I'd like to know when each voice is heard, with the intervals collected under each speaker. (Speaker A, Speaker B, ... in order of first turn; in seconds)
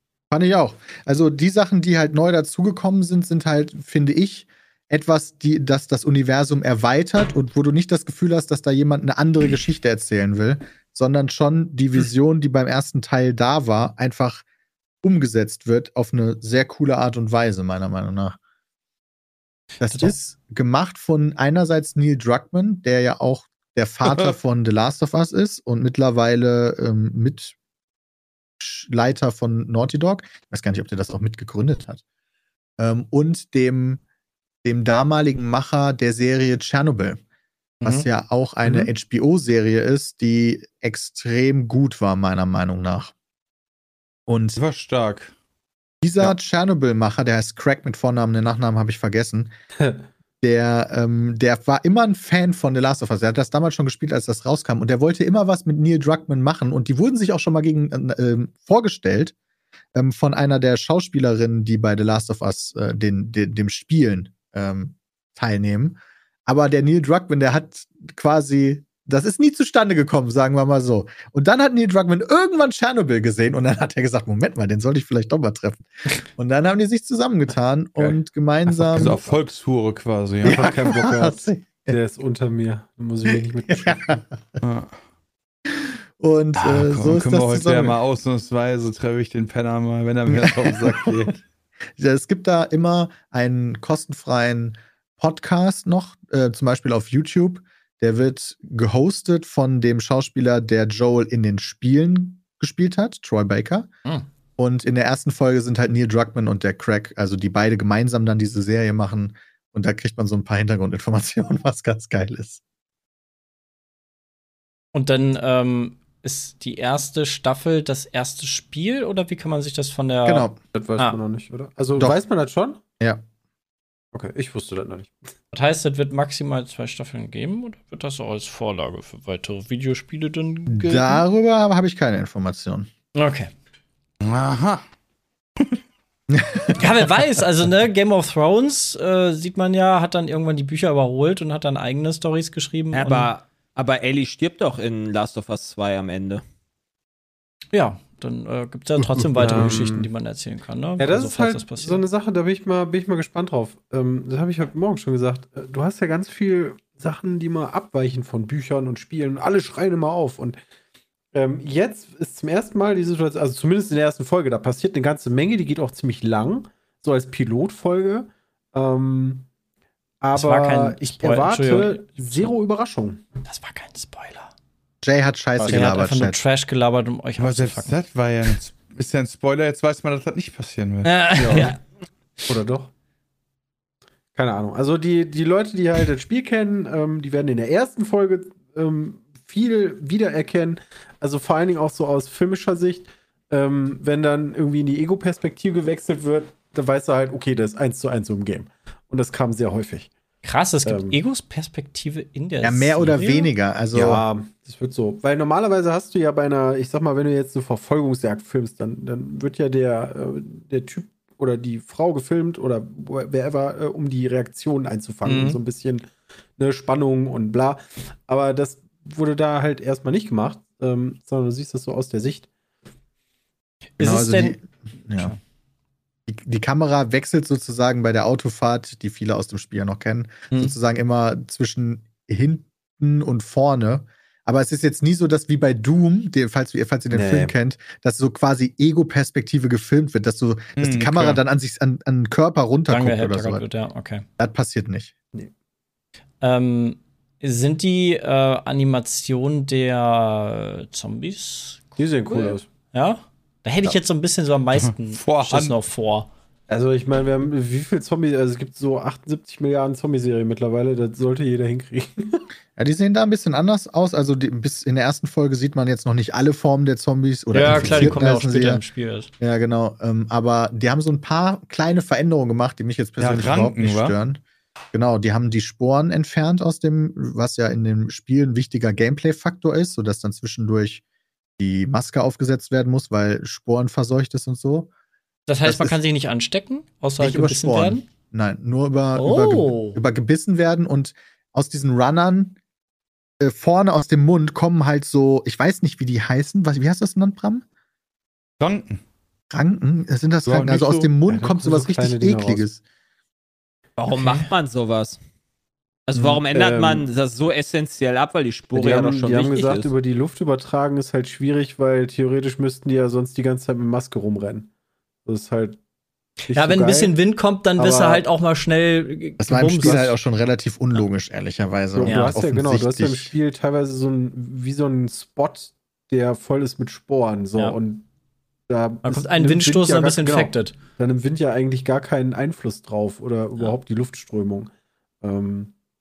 Speaker A: 0.3-14.4, 15.0-18.4, 19.8-27.6, 28.6-32.0, 32.8-34.0, 34.6-37.2, 37.8-43.1, 44.3-44.6, 46.0-49.5, 50.4-59.3, 59.9-79.2, 80.4-82.0, 83.3-84.2, 85.7-88.0, 90.3-91.2, 92.0-103.9, 104.6-112.6, 120.2-120.6, 130.7-132.9, 136.3-136.8, 149.0-149.8, 175.0-176.4, 202.6-204.2, 224.0-225.3, 226.3-243.7, 244.4-245.1, 262.8-268.8, 269.4-274.4, 274.9-281.0, 281.6-284.9, 285.6-286.0, 287.2-292.6, 293.4-297.6, 299.5-302.8, 319.4-323.3
Speaker B: 19.9-20.1, 37.8-38.1, 114.9-121.2, 125.5-131.2, 133.2-133.5, 136.8-143.3, 147.7-152.0, 170.3-172.5, 173.4-174.5, 175.6-178.0, 181.0-181.8, 200.4-203.5, 215.2-215.6, 224.0-224.6, 242.9-244.2, 246.4-256.3, 267.5-269.3, 285.5-288.1, 289.1-290.0, 304.1-304.5, 316.5-320.1, 322.1-322.4, 329.1-330.8
Speaker C: 44.6-45.3, 78.7-80.8, 84.6-84.9, 86.6-91.4, 134.2-134.8, 177.4-181.3, 240.8-241.4, 255.1-255.8, 273.2-274.1, 298.6-299.0, 300.5-301.1
Speaker D: 49.8-50.1, 80.4-84.2, 120.7-122.8, 124.1-125.2, 149.4-150.1, 151.0-160.6, 161.3-169.5, 170.2-173.2, 175.6-175.9, 181.4-181.7, 182.5-182.9, 184.3-200.1, 200.8-201.2, 203.9-222.5, 237.1-237.6, 252.0-252.7, 256.7-262.4, 301.2-302.6, 306.5-307.1, 308.7-314.7, 315.2-315.8, 316.5-317.2, 317.8-318.2, 319.8-320.1, 321.9-328.1, 328.7-334.7, 335.2-335.7
Speaker E: 142.9-146.4, 304.0-305.2, 306.1-309.9